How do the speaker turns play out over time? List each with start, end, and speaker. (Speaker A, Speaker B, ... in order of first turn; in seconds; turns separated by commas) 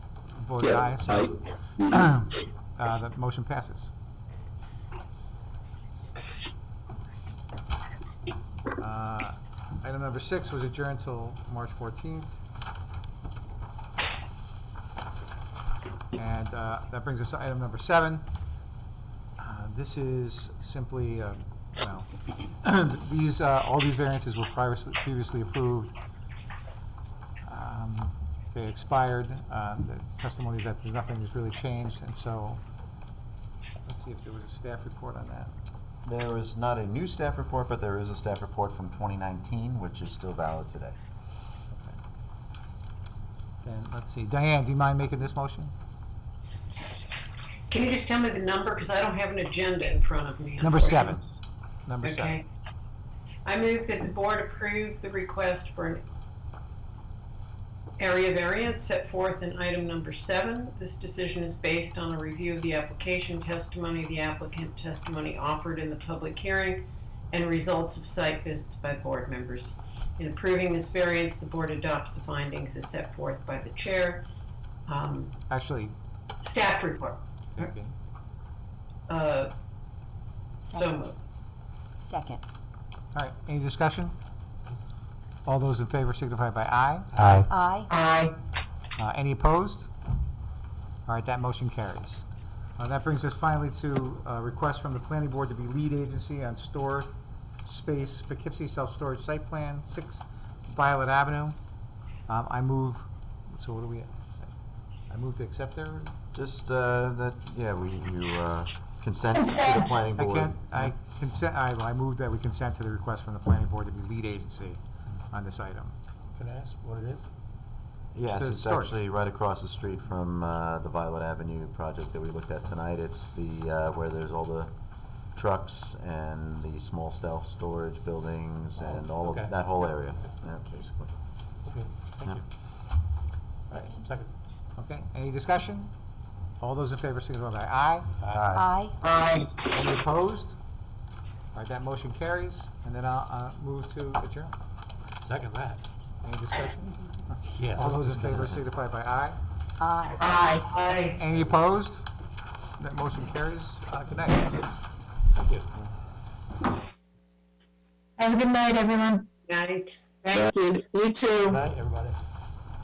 Speaker A: 0.3-3.9, Speaker A: 8.8-12.3, Speaker A: 16.1-18.3, Speaker A: 19.4-25.9, Speaker A: 27.4-32.6, Speaker A: 33.8-35.5, Speaker B: 36.0-41.0, Speaker A: 41.7-42.0, Speaker A: 43.6-45.7, Speaker C: 47.7-51.2, Speaker A: 50.6-51.2, Speaker A: 51.9-52.3, Speaker C: 52.0-52.4, Speaker C: 53.4-56.0, Speaker C: 58.0-74.2, Speaker C: 74.9-75.3, Speaker A: 75.5-76.0, Speaker C: 76.4-77.7, Speaker A: 77.5-77.9, Speaker C: 79.1-79.5, Speaker D: 80.6-80.9, Speaker C: 80.6-81.2, Speaker D: 82.0-82.4, Speaker A: 83.1-84.1, Speaker A: 85.5-87.5, Speaker E: 87.2-87.5, Speaker D: 87.5-87.9, Speaker F: 88.0-88.3, Speaker A: 89.0-89.9, Speaker A: 91.0-92.2, Speaker A: 92.8-97.1, Speaker A: 97.6-101.6, Speaker A: 102.3-104.5, Speaker A: 105.1-106.1, Speaker B: 106.3-110.8, Speaker A: 110.1-114.8, Speaker A: 115.3-116.0, Speaker E: 116.3-117.3, Speaker B: 118.1-124.7, Speaker A: 118.3-118.9, Speaker B: 125.3-131.1, Speaker E: 129.2-129.5, Speaker E: 131.6-132.4, Speaker E: 133.7-134.3, Speaker A: 134.8-135.9, Speaker A: 136.6-138.7, Speaker E: 138.2-138.5, Speaker D: 138.5-139.0, Speaker A: 139.2-140.6, Speaker A: 141.5-144.5, Speaker E: 145.2-145.8, Speaker A: 146.2-149.4, Speaker E: 147.5-148.5, Speaker D: 149.8-150.3, Speaker F: 150.4-150.6, Speaker C: 150.4-151.2, Speaker A: 151.1-152.1, Speaker A: 152.8-154.7, Speaker E: 155.3-155.7, Speaker F: 158.2-159.3, Speaker C: 159.5-160.2, Speaker F: 160.2-161.6, Speaker E: 161.5-162.2